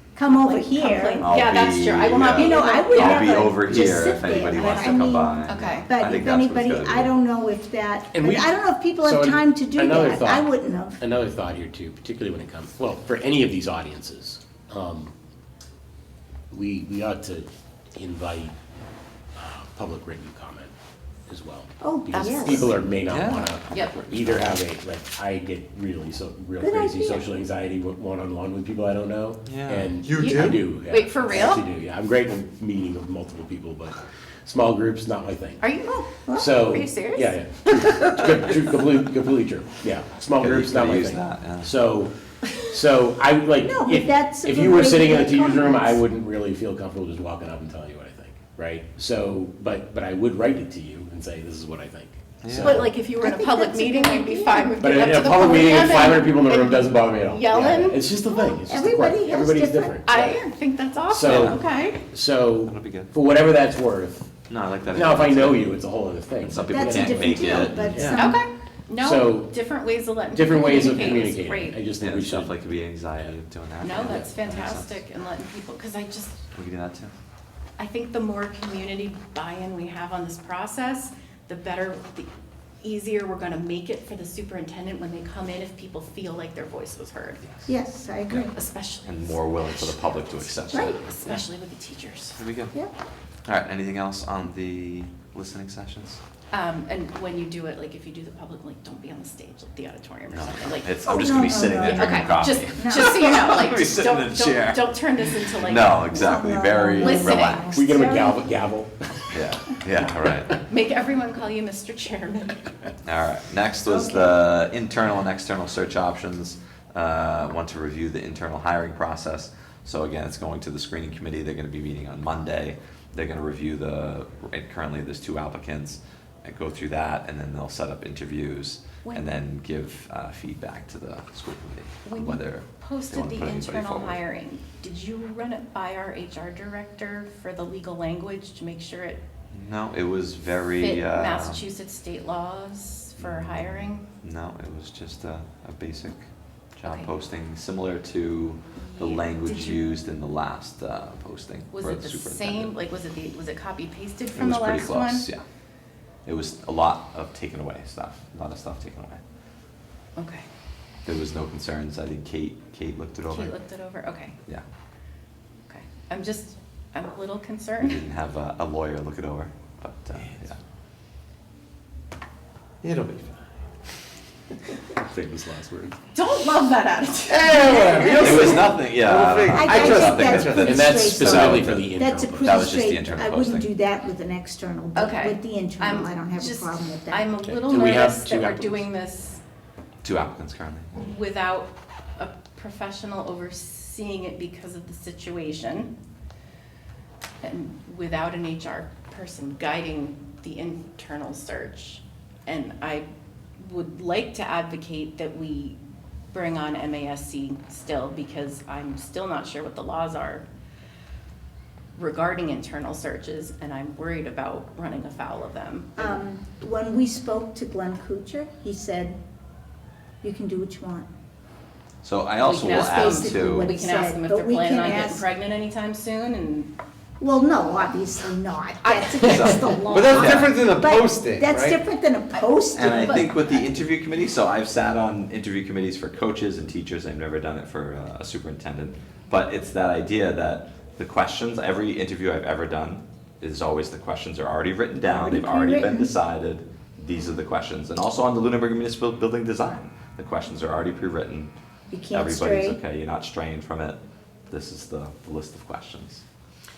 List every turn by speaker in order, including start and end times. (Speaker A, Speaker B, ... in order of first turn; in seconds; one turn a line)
Speaker A: 0.1-1.3
Speaker B: 0.2-3.4
Speaker C: 1.2-7.1
Speaker A: 2.3-11.0
Speaker B: 4.5-4.9
Speaker B: 5.5-5.9
Speaker D: 8.1-15.1
Speaker D: 16.5-18.5
Speaker D: 19.3-20.7
Speaker D: 21.3-35.6
Speaker A: 21.8-22.7
Speaker B: 22.1-22.8
Speaker C: 23.1-24.6
Speaker B: 23.7-24.0
Speaker A: 26.6-27.2
Speaker C: 29.4-30.5
Speaker E: 30.0-30.6
Speaker B: 30.1-31.6
Speaker B: 35.6-38.1
Speaker A: 35.9-36.7
Speaker D: 36.3-52.9
Speaker C: 40.4-41.8
Speaker A: 43.6-46.0
Speaker C: 52.4-52.8
Speaker B: 52.6-58.0
Speaker A: 52.8-56.3
Speaker D: 54.8-60.4
Speaker A: 58.3-60.2
Speaker B: 60.0-62.0
Speaker D: 61.1-61.6
Speaker C: 61.3-61.6
Speaker D: 62.1-64.3
Speaker C: 62.6-63.1
Speaker C: 64.5-65.7
Speaker D: 64.9-68.2
Speaker C: 66.4-68.3
Speaker A: 66.7-68.4
Speaker B: 68.1-71.8
Speaker D: 69.0-69.5
Speaker D: 70.3-72.6
Speaker C: 70.8-71.2
Speaker C: 72.0-75.0
Speaker B: 73.8-76.4
Speaker C: 76.5-77.1
Speaker B: 77.8-82.3
Speaker B: 82.8-87.4
Speaker C: 87.4-87.7
Speaker A: 87.7-88.5
Speaker B: 88.5-92.4
Speaker C: 89.0-91.4
Speaker A: 90.7-91.0
Speaker C: 92.4-92.7
Speaker C: 93.4-96.2
Speaker B: 96.5-106.4
Speaker C: 100.3-107.8
Speaker A: 101.0-103.2
Speaker A: 106.1-108.3
Speaker B: 107.0-108.3
Speaker D: 107.7-110.6
Speaker C: 109.3-110.5
Speaker B: 110.7-112.7
Speaker C: 113.0-134.2
Speaker A: 113.8-114.4
Speaker B: 132.0-139.2
Speaker C: 139.5-141.6
Speaker B: 140.8-144.0
Speaker C: 143.2-146.2
Speaker C: 146.8-152.8
Speaker B: 146.8-147.1
Speaker B: 148.8-150.0
Speaker B: 151.7-155.2
Speaker C: 154.3-155.4
Speaker C: 156.2-159.2
Speaker B: 160.2-160.4
Speaker C: 161.0-163.5
Speaker B: 163.3-164.3
Speaker B: 165.7-168.0
Speaker C: 167.8-170.6
Speaker E: 172.8-173.4
Speaker D: 174.9-176.0
Speaker B: 176.1-178.7
Speaker E: 177.3-180.9
Speaker C: 177.7-181.9
Speaker A: 179.5-187.3
Speaker D: 180.5-182.7
Speaker C: 182.4-183.7
Speaker B: 184.9-189.4
Speaker D: 187.7-188.9
Speaker C: 190.0-191.1
Speaker B: 190.9-195.9
Speaker B: 197.4-205.8
Speaker B: 206.3-210.4
Speaker B: 211.9-216.2
Speaker A: 215.9-219.2
Speaker A: 220.2-221.1
Speaker C: 222.0-223.7
Speaker B: 222.4-226.7
Speaker A: 222.5-225.2
Speaker A: 227.2-233.2
Speaker B: 228.8-229.4
Speaker C: 229.1-230.6
Speaker E: 229.9-231.8
Speaker C: 232.7-251.5
Speaker B: 232.9-233.6
Speaker A: 245.1-246.1
Speaker A: 251.9-252.8
Speaker C: 252.1-256.2